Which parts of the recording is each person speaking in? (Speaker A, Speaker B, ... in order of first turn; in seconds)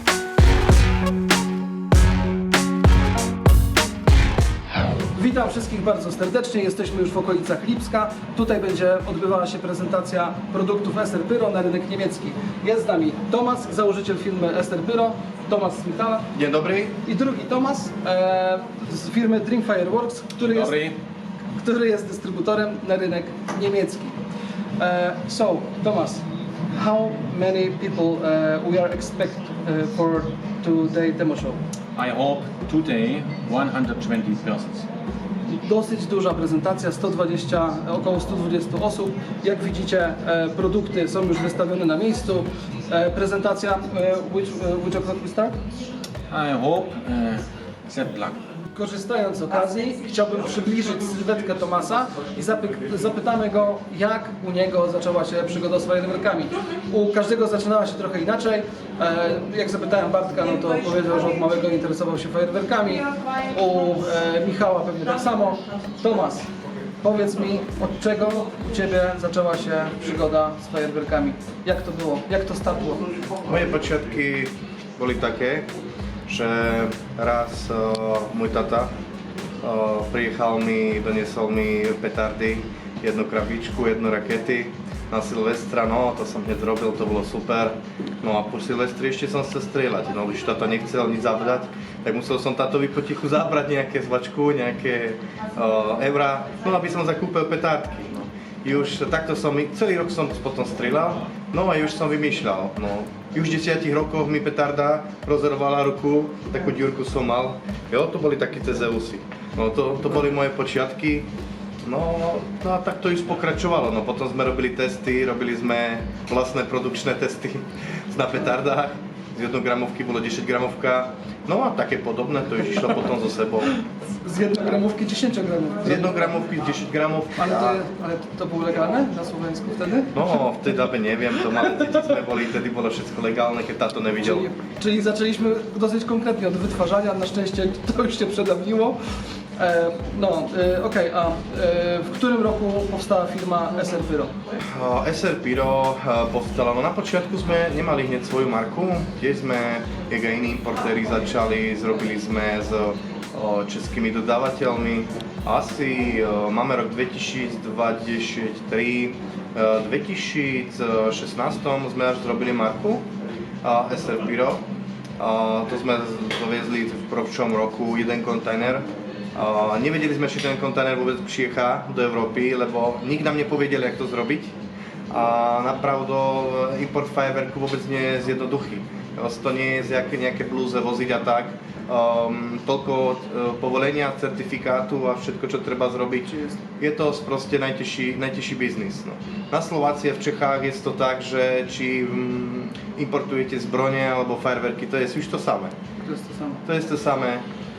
Speaker A: 5.1-16.3, 17.0-20.8, 21.5-24.2, 24.8-31.6, 35.5-45.6, 48.7-66.5, 67.0-73.0, 124.2-126.1, 127.4-130.2, 134.2-139.0, 139.6-144.3, 186.3-186.6, 196.0-196.6
Speaker B: 16.3-17.0, 73.5-75.7, 76.3-78.9, 79.6-111.3, 111.8-123.7, 125.8-127.8, 130.1-134.5, 144.7-163.1, 163.6-164.6, 165.2-174.5, 175.1-195.8, 196.7-197.4
Speaker C: 20.5-21.0, 32.0-34.9, 46.3-48.4